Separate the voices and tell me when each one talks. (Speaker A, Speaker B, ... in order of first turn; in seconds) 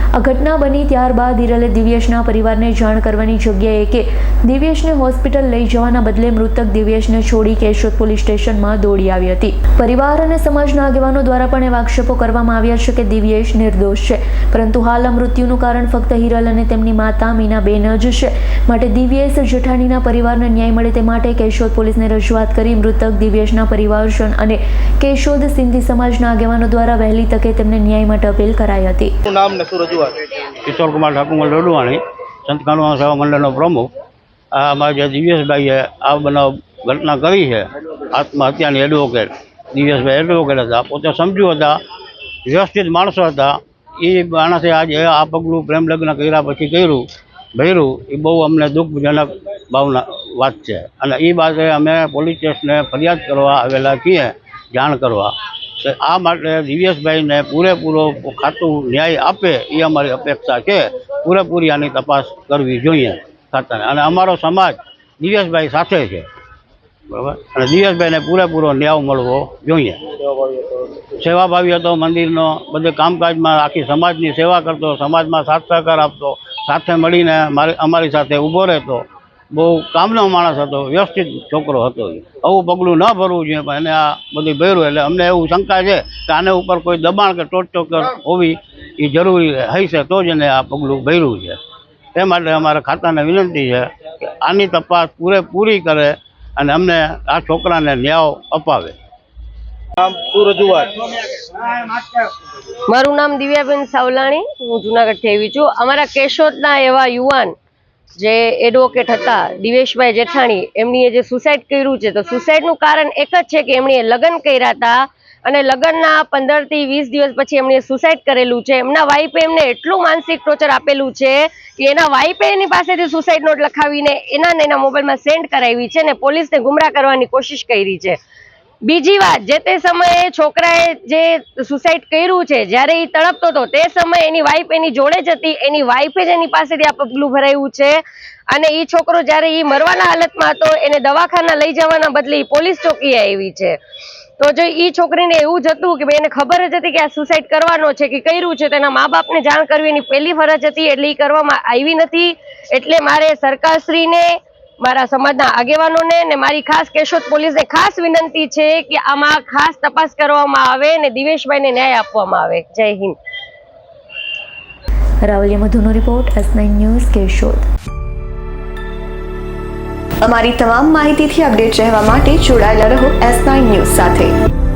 Speaker A: 0.1-29.1, 165.2-167.7
Speaker B: 29.2-30.2, 100.0-101.6
Speaker C: 30.6-33.9, 34.5-41.8, 42.5-47.0, 47.5-66.3, 67.1-70.0, 71.1-91.6, 92.2-98.9
Speaker D: 102.9-107.5, 108.2-128.2, 128.8-143.8, 144.4-163.2
Speaker E: 170.2-174.3